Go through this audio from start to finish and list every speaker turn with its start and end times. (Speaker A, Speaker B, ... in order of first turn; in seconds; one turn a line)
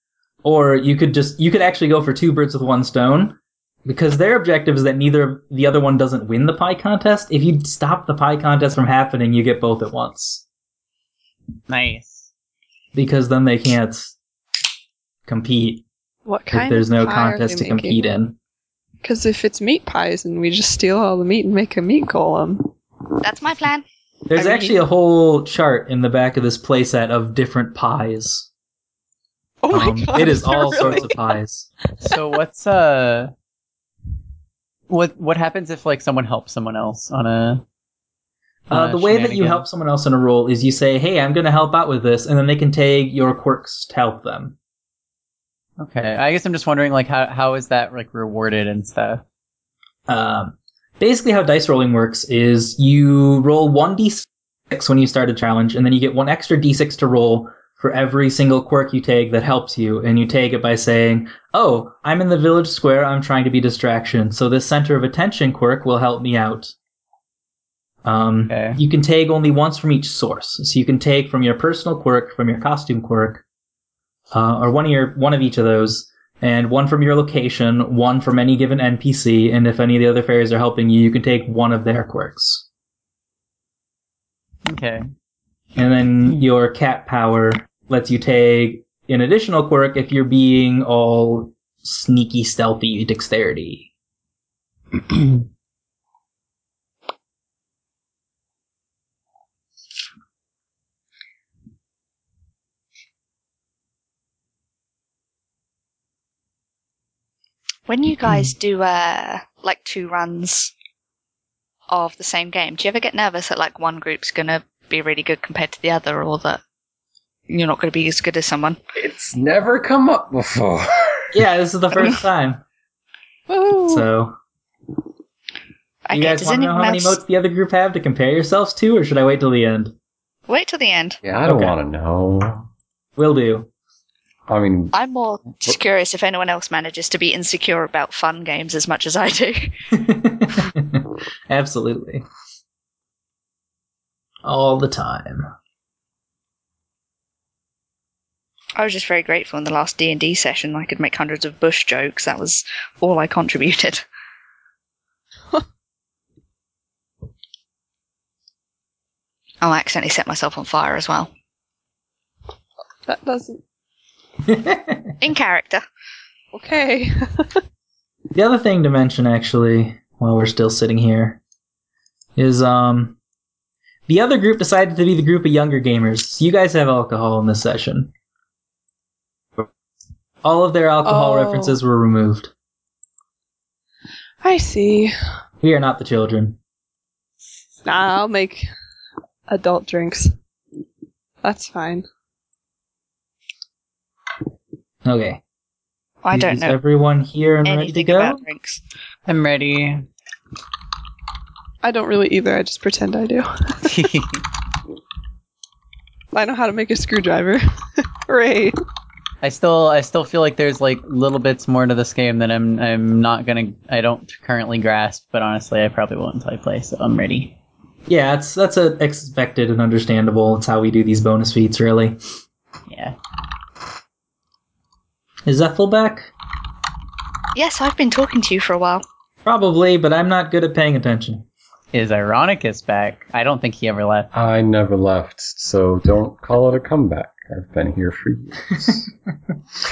Speaker A: 0.4-10.4
Speaker B: 11.7-12.3
Speaker A: 12.9-14.2
Speaker A: 15.3-15.8
Speaker C: 16.3-18.0
Speaker A: 16.5-18.4
Speaker C: 19.0-22.7
Speaker D: 23.2-23.9
Speaker A: 24.3-28.5
Speaker C: 24.4-24.8
Speaker C: 29.6-31.3
Speaker A: 29.7-31.7
Speaker B: 32.0-33.3
Speaker B: 34.9-37.6
Speaker B: 38.7-39.6
Speaker A: 38.7-44.5
Speaker B: 45.8-49.2
Speaker A: 50.1-66.7
Speaker A: 68.0-73.4
Speaker B: 68.5-68.8
Speaker A: 74.3-82.7
Speaker B: 84.7-85.1
Speaker A: 85.8-93.9
Speaker D: 107.9-110.7
Speaker D: 111.9-116.6
Speaker D: 117.5-118.8
Speaker E: 119.0-121.3
Speaker A: 121.3-122.6
Speaker C: 123.5-124.0
Speaker A: 123.8-124.3
Speaker D: 126.1-127.2
Speaker A: 126.1-129.9
Speaker D: 130.5-131.2
Speaker E: 131.2-132.7
Speaker A: 131.4-131.8
Speaker A: 133.2-133.7
Speaker E: 134.5-134.9
Speaker D: 134.9-139.7
Speaker A: 139.9-142.2
Speaker A: 144.4-145.5
Speaker D: 148.8-154.0
Speaker D: 159.6-161.3
Speaker C: 163.1-163.6
Speaker A: 164.5-165.2
Speaker D: 165.2-165.8
Speaker C: 166.5-167.6
Speaker A: 168.3-171.4
Speaker A: 172.4-173.2
Speaker A: 174.1-178.1
Speaker A: 180.4-182.5
Speaker C: 181.1-181.8
Speaker C: 184.4-185.1
Speaker A: 185.6-186.6
Speaker C: 187.8-188.7
Speaker C: 189.5-190.3
Speaker C: 191.4-192.1
Speaker A: 195.1-195.4
Speaker D: 196.2-196.8
Speaker A: 196.3-198.4
Speaker D: 197.7-198.8
Speaker B: 199.3-200.1
Speaker C: 201.8-204.0
Speaker B: 203.8-204.4
Speaker C: 206.3-208.8
Speaker B: 209.4-217.6
Speaker A: 218.1-222.2
Speaker B: 222.9-223.2
Speaker A: 225.5-226.3
Speaker D: 227.6-229.1
Speaker A: 229.4-231.4
Speaker B: 231.9-234.3
Speaker E: 234.3-239.1